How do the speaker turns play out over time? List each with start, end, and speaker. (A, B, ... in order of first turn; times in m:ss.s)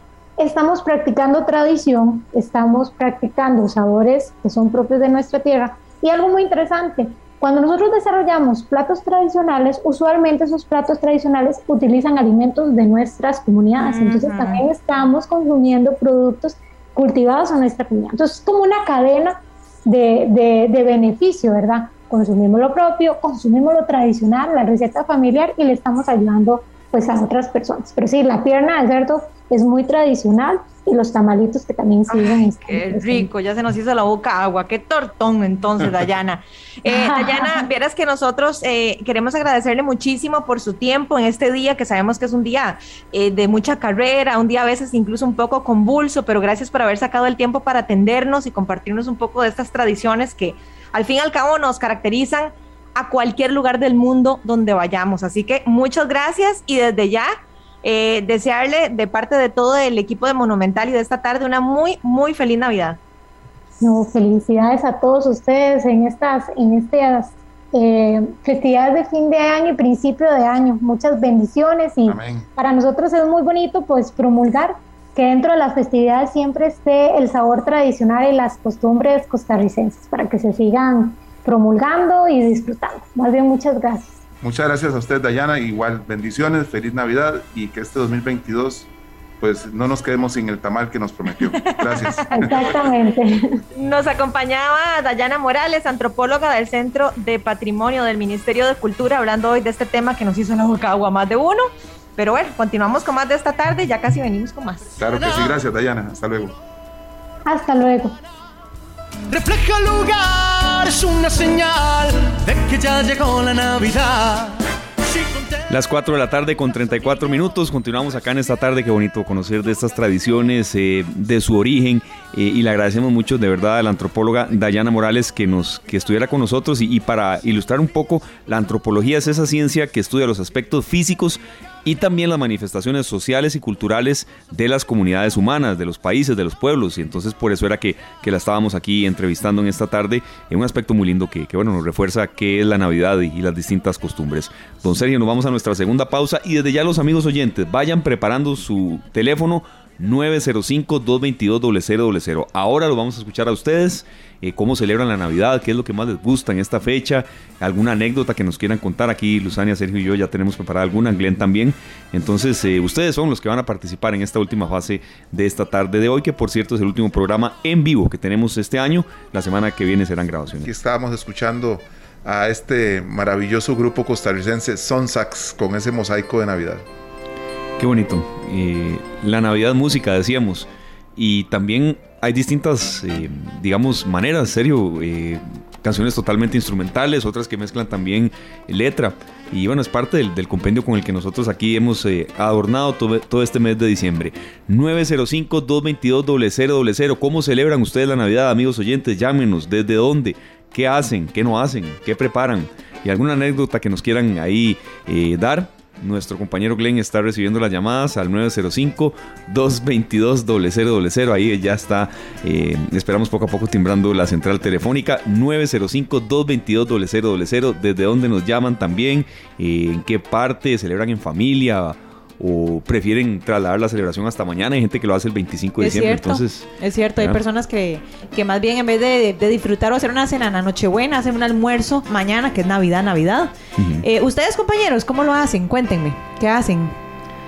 0:00.4-0:33.3 A
0:13.8-0:14.6 B
0:32.1-0:57.3 B
0:36.9-0:37.7 A
0:57.8-1:03.0 B
1:03.8-1:24.2 A
1:12.1-1:12.5 C
1:24.4-1:32.8 C
1:31.6-1:32.4 B
1:32.3-1:33.6 A
1:33.8-1:45.0 B
1:45.0-1:46.6 C
1:47.5-1:48.2 A
1:49.3-1:54.6 D
1:55.1-1:55.5 D
1:55.7-2:50.7 E
2:50.6-2:56.9 C
2:57.8-3:47.4 E
3:45.8-3:57.0 B
3:53.8-3:54.0 E